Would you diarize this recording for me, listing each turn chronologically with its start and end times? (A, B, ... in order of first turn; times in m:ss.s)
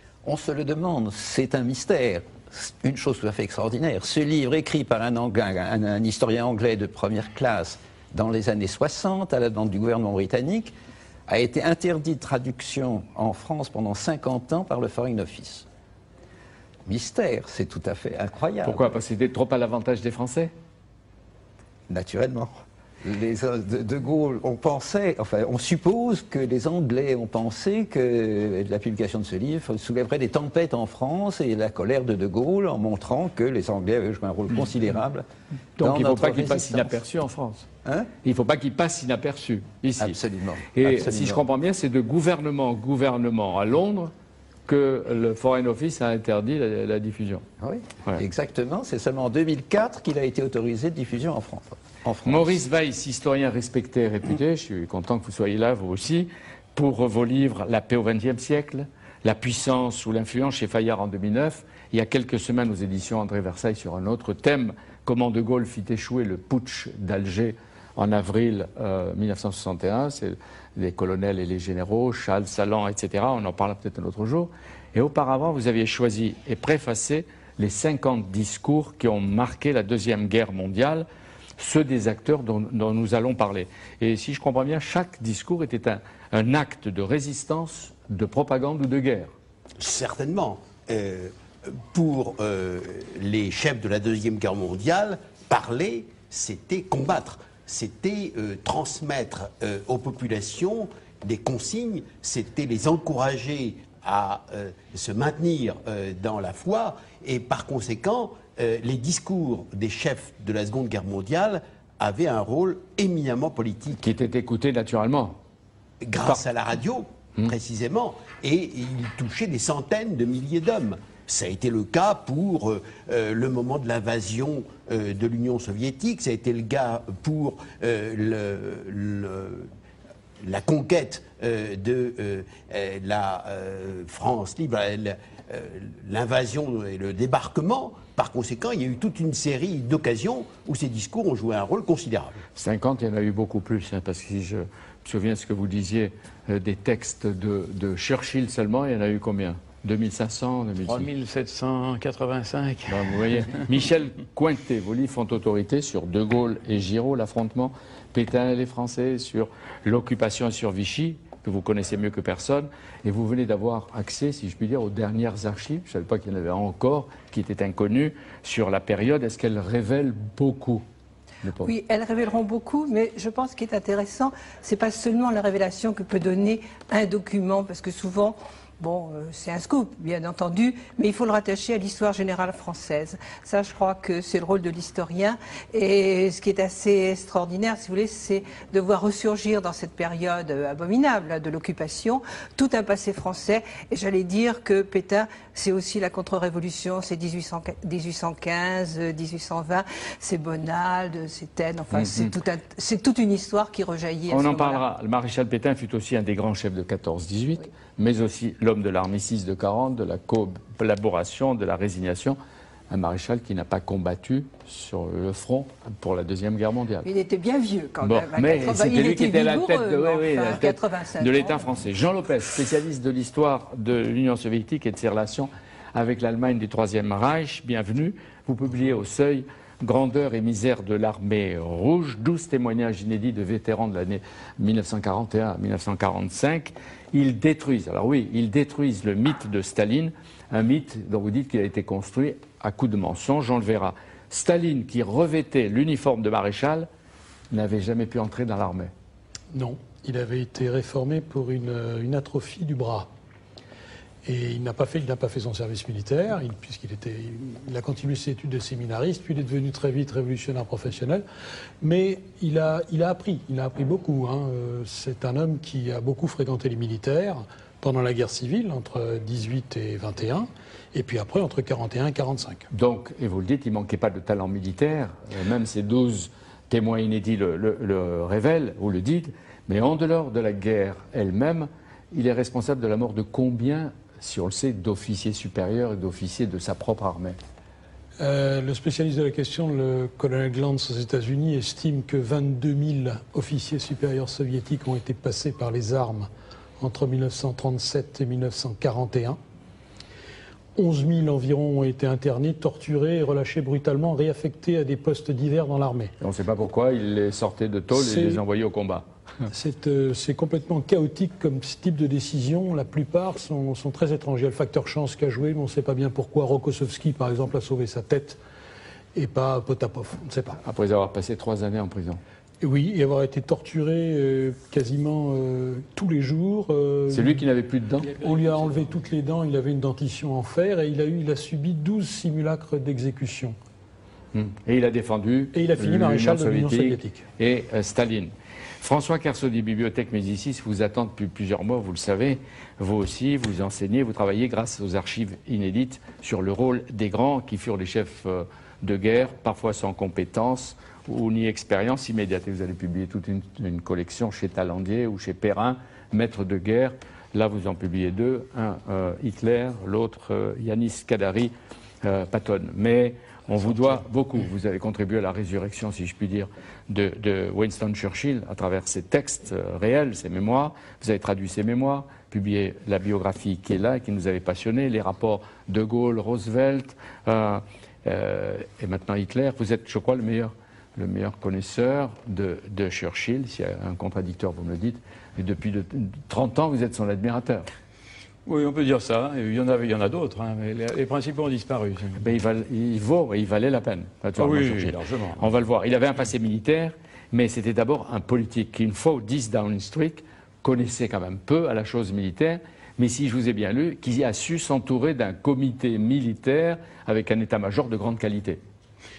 0:00.2-0:10.7 A
0:11.3-0:15.7 A
0:16.9-0:18.9 A
0:18.6-0:20.5 B
0:21.9-0:35.3 A
0:35.8-0:37.7 B
0:35.8-0:37.0 A
0:37.8-0:38.1 A
0:38.2-0:40.2 B
0:40.0-0:41.4 A
0:40.7-0:44.1 B
0:44.7-0:47.4 B
0:47.6-0:52.6 A
0:52.2-1:21.1 B
1:21.6-1:29.3 B
1:29.8-1:54.1 C
1:54.0-1:55.4 B
1:56.0-2:09.7 C
2:10.4-2:22.4 C
2:22.6-2:31.1 B
2:30.9-2:33.6 D
2:32.9-2:50.8 B
2:51.4-2:51.7 B
2:51.6-3:24.8 E
3:21.9-3:22.3 B
3:24.3-3:32.4 B
3:32.9-3:37.1 B
3:37.0-3:41.6 E
3:38.0-4:06.9 B
4:07.5-4:08.9 B
4:09.5-4:13.1 F
4:14.2-4:21.2 F
4:21.8-4:32.7 F
4:32.7-4:47.4 B
4:48.2-4:59.4 F
5:00.8-5:06.1 F
5:06.2-5:09.5 B
5:07.9-5:08.4 F
5:09.5-5:18.4 F
5:19.2-5:20.6 F
5:20.6-5:22.2 B
5:22.6-5:27.4 F
5:27.1-5:28.2 B
5:28.0-5:29.0 D
5:28.2-5:33.6 F
5:34.3-6:27.7 B
5:35.5-5:37.3 F
6:28.5-6:32.2 D
6:32.2-6:48.6 B
6:34.4-6:35.4 D